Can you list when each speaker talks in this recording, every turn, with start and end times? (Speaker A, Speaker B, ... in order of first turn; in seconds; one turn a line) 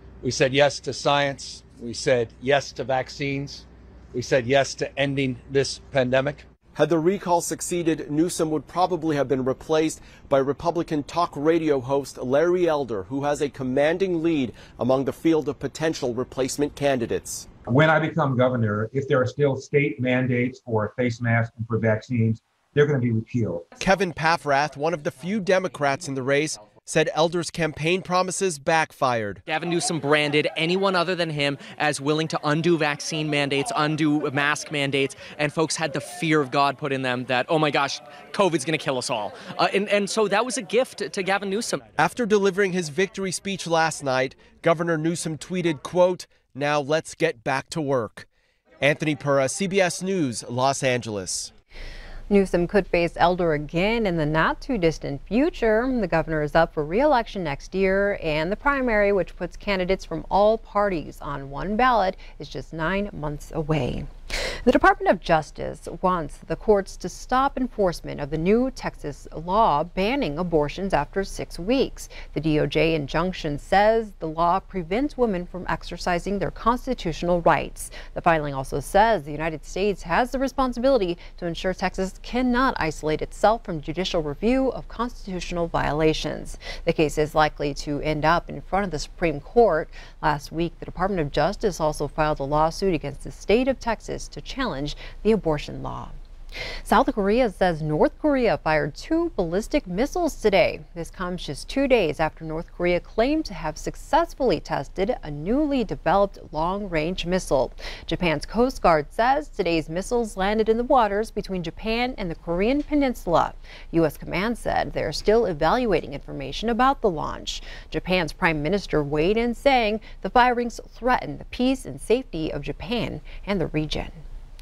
Speaker A: 0.2-6.4
Speaker B: 6.7-17.4
Speaker C: 17.7-23.6
Speaker B: 23.8-29.4
Speaker D: 29.5-41.8
Speaker B: 42.0-48.3
Speaker B: 48.8-51.5
Speaker E: 52.3-64.1
Speaker E: 64.6-96.1
Speaker E: 96.8-124.2